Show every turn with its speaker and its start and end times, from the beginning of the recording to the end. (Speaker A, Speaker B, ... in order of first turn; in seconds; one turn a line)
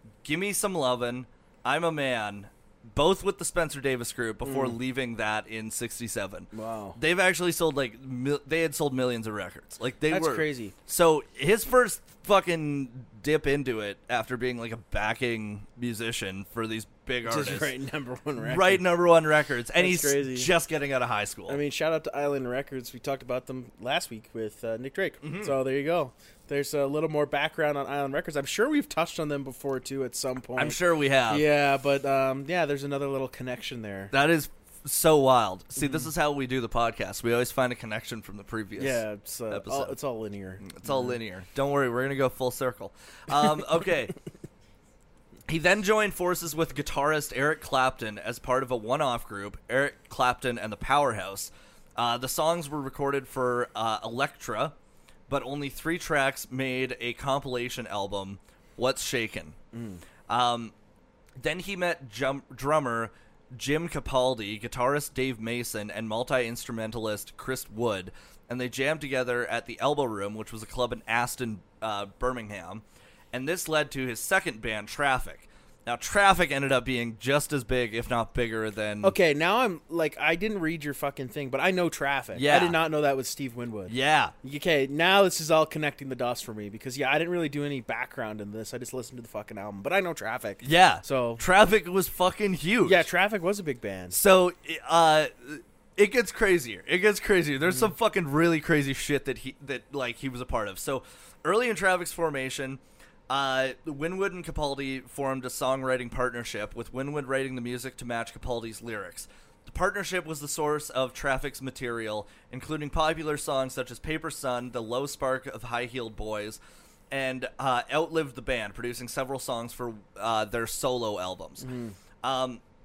Speaker A: 0.2-17.7
Speaker B: 4.4-4.8
Speaker B: 6.5-7.0
Speaker B: 10.1-10.7
Speaker B: 17.2-18.8
Speaker A: 18.4-21.6
Speaker B: 19.8-20.5
Speaker B: 21.5-34.1
Speaker A: 25.2-25.5
Speaker A: 30.6-31.4
Speaker A: 34.1-39.9
Speaker B: 35.8-36.1
Speaker B: 38.8-41.1
Speaker A: 40.6-44.1
Speaker A: 45.5-54.8
Speaker A: 55.3-59.5
Speaker B: 59.7-60.0
Speaker A: 60.3-60.7
Speaker A: 61.4-79.1
Speaker B: 79.0-91.4
Speaker A: 82.3-82.8
Speaker A: 83.9-84.3
Speaker A: 90.6-93.0
Speaker B: 92.8-94.2
Speaker A: 94.1-116.6
Speaker A: 117.1-121.7
Speaker B: 121.6-122.0
Speaker A: 122.2-122.6